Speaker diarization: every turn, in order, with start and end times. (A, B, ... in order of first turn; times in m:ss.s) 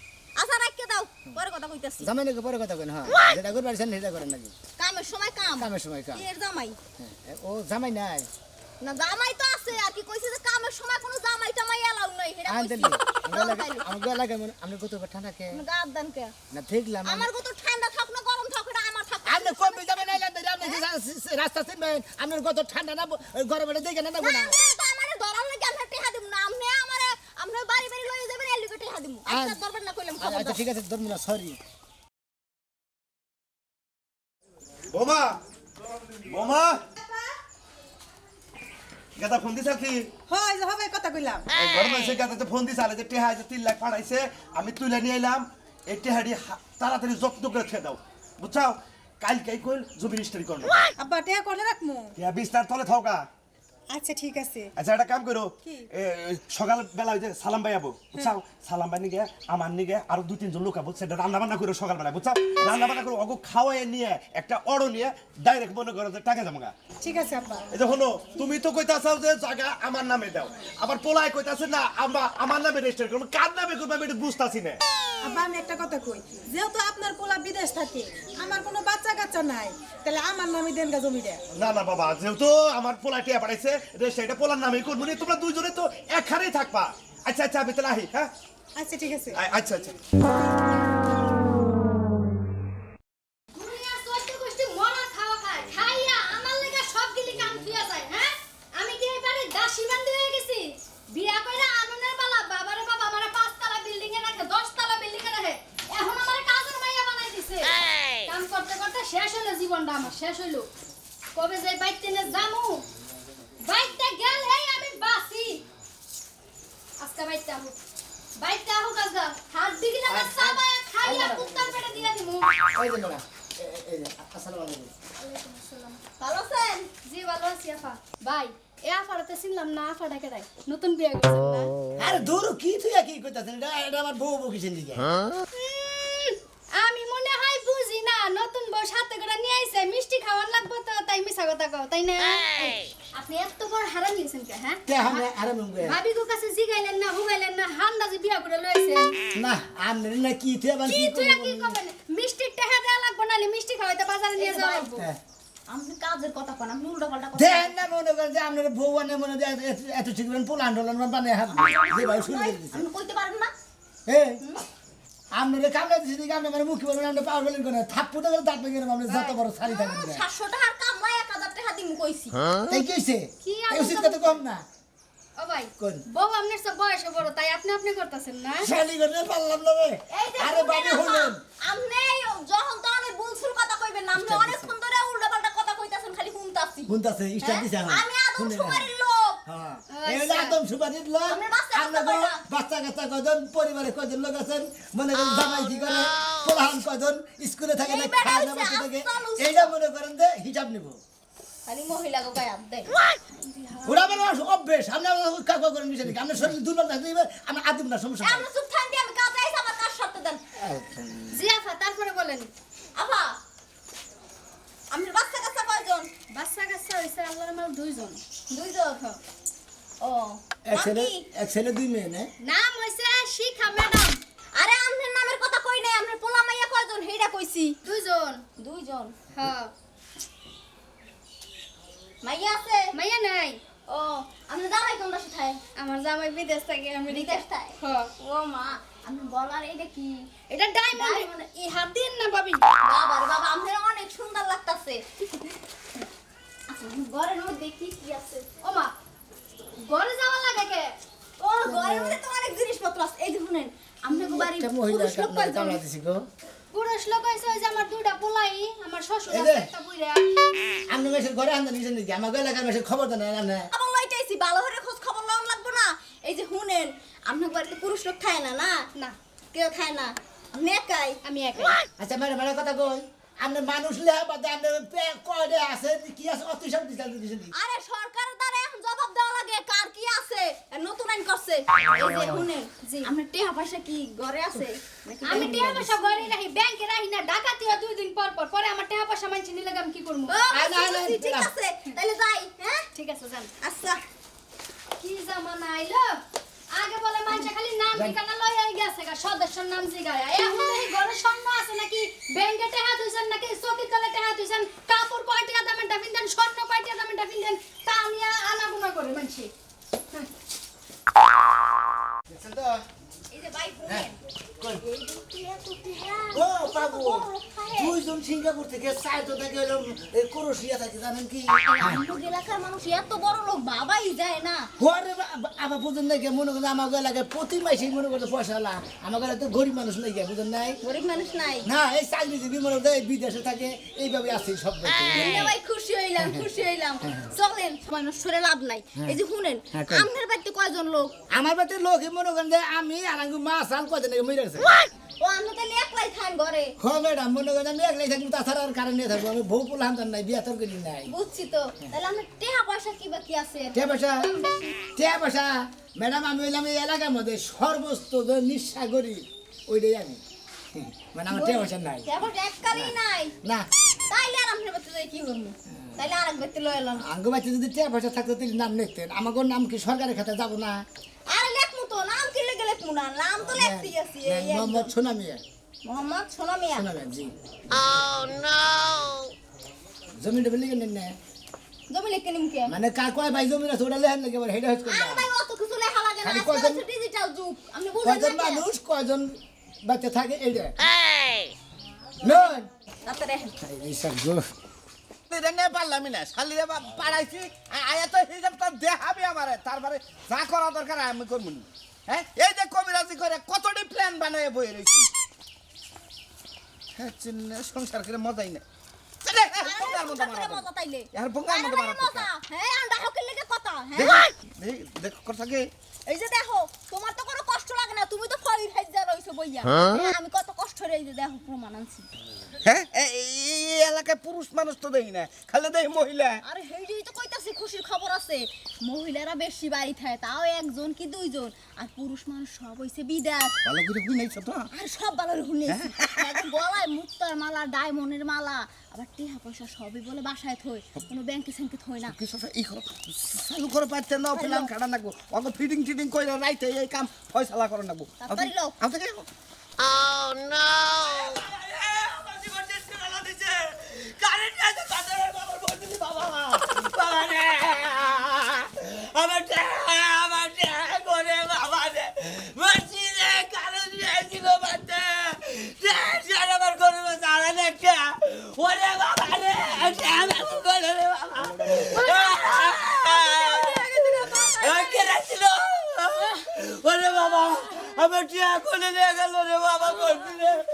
0:00.4-0:02.1 A
0:02.0-0:04.5 B
0:04.8-0:06.8 A
0:05.6-0:06.2 B
0:07.0-0:08.3 B
0:08.8-0:13.9 A
0:12.5-0:15.6 B
0:15.5-0:16.3 A
0:16.5-0:17.3 B
0:17.0-0:20.8 A
0:19.2-0:24.6 B
0:24.2-0:30.6 A
0:29.3-0:29.6 B
0:30.2-0:31.6 B
0:34.9-0:35.4 C
0:36.2-0:36.8 C
0:39.2-0:40.1 C
0:40.3-0:41.5 D
0:41.5-0:50.7 C
0:51.0-0:52.1 D
0:52.2-0:53.2 C
0:53.9-0:54.7 D
0:54.8-1:06.7 C
1:07.0-1:07.7 D
1:07.7-1:14.8 C
1:15.2-1:21.4 D
1:21.5-1:28.3 C
1:28.8-1:29.4 D
1:29.3-1:29.9 C
1:33.5-1:50.6 E
1:51.3-1:52.8 E
1:53.7-1:55.6 E
1:57.0-1:57.8 E
1:58.4-2:02.5 E
2:00.1-2:01.7 B
2:02.8-2:05.0 B
2:05.2-2:06.0 E
2:06.2-2:06.9 A
2:07.0-2:11.7 E
2:12.0-2:15.1 B
2:15.6-2:25.3 E
2:24.9-2:26.0 B
2:25.8-2:29.2 E
2:29.3-2:31.8 B
2:30.8-2:35.1 E
2:34.4-2:34.9 A
2:35.7-2:37.8 A
2:37.3-2:42.8 B
2:41.5-2:43.5 A
2:44.1-2:44.4 B
2:45.3-2:50.2 B
2:49.1-2:49.4 E
2:49.6-2:52.4 A
2:52.7-2:54.6 B
2:53.4-2:54.4 E
2:55.4-2:58.7 E
2:58.6-3:01.4 B
3:00.1-3:06.9 A
3:04.1-3:04.7 B
3:06.9-3:08.9 B
3:07.4-3:09.4 A
3:09.5-3:21.0 B
3:09.9-3:10.6 E
3:11.2-3:12.4 A
3:17.8-3:19.7 A
3:21.6-3:23.0 A
3:23.2-3:24.3 E
3:23.8-3:28.5 B
3:28.2-3:30.4 A
3:30.6-3:31.4 B
3:31.3-3:32.5 E
3:33.0-3:33.4 A
3:34.9-3:36.1 A
3:36.3-3:38.2 E
3:38.5-3:39.2 A
3:40.0-3:41.2 A
3:40.6-3:42.3 B
3:42.4-3:44.2 E
3:44.6-3:47.8 A
3:47.8-3:48.4 E
3:48.6-3:49.2 A
3:49.3-3:49.7 E
3:52.2-3:52.9 A
3:52.9-3:53.6 E
3:53.9-3:55.6 A
3:55.7-3:58.1 E
3:57.0-4:00.3 A
4:00.5-4:02.6 E
4:00.9-4:01.3 A
4:02.8-4:05.0 A
4:06.7-4:08.5 A
4:08.6-4:08.9 E
4:09.8-4:10.9 E
4:11.4-4:15.8 A
4:11.6-4:12.2 B
4:14.2-4:16.2 B
4:16.7-4:20.2 E
4:19.3-4:19.7 B
4:20.9-4:23.7 B
4:23.7-4:28.8 A
4:29.5-4:31.2 A
4:31.2-4:31.8 E
4:32.0-4:37.5 B
4:37.5-4:46.2 A
4:42.8-4:43.1 E
4:45.2-4:50.4 E
4:45.3-4:45.9 B
4:50.3-4:52.9 A
4:50.5-4:51.5 B
4:52.9-4:53.5 E
4:53.6-4:54.0 A
4:55.0-4:56.2 E
4:56.7-5:09.5 E
5:12.3-5:12.8 B
5:13.3-5:14.2 A
5:14.8-5:18.0 A
5:16.3-5:22.0 B
5:21.6-5:24.7 A
5:24.8-5:30.8 B
5:30.8-5:31.7 A
5:31.6-5:35.5 B
5:35.1-5:41.1 A
5:39.7-5:40.1 B
5:41.3-5:44.7 B
5:45.2-5:46.7 A
5:46.8-5:51.1 B
5:51.1-5:54.7 A
5:53.7-5:54.3 B
5:55.0-6:00.2 B
6:00.7-6:02.1 B
6:01.3-6:03.3 A
6:02.7-6:03.7 B
6:04.1-6:07.0 A
6:07.0-6:10.8 B
6:11.3-6:14.9 A
6:13.4-6:15.4 B
6:15.8-6:16.9 A
6:16.8-6:18.2 B
6:18.3-6:19.2 F
6:20.2-6:21.2 B
6:21.9-6:22.7 A
6:22.7-6:25.3 B
6:24.8-6:28.7 A
6:26.2-6:26.8 B
6:28.0-6:29.3 B
6:29.8-6:30.8 B
6:32.2-6:32.7 B
6:33.0-6:33.6 A
6:33.6-6:34.4 B
6:35.3-6:45.1 G
6:47.0-6:48.6 G
6:49.2-6:50.6 G
6:49.6-6:54.2 A
6:51.2-6:52.2 G
6:54.0-6:55.7 G
6:56.0-7:02.1 A
7:02.6-7:06.4 G
7:06.4-7:13.6 A
7:13.7-7:14.6 G
7:14.7-7:22.2 A
7:22.2-7:29.2 G
7:24.3-7:24.7 A
7:24.4-7:24.7 B
7:28.2-7:28.7 A
7:30.0-7:30.6 F
7:30.8-7:31.4 G
7:32.4-7:33.4 B
7:36.8-7:37.1 B
7:37.2-7:37.9 F
7:39.2-7:39.6 B
7:39.6-7:41.5 F
7:40.4-7:41.2 B
7:41.7-7:42.0 B
7:42.7-7:45.1 B
7:45.8-7:52.7 B
7:46.8-7:47.3 F
7:50.1-7:50.5 F
7:51.6-7:52.1 G
7:52.0-7:55.0 A
7:52.3-7:53.7 F
7:53.4-7:53.6 B
7:54.6-7:55.2 B
7:54.7-7:55.5 F
7:56.8-7:57.2 F
7:57.0-8:00.5 B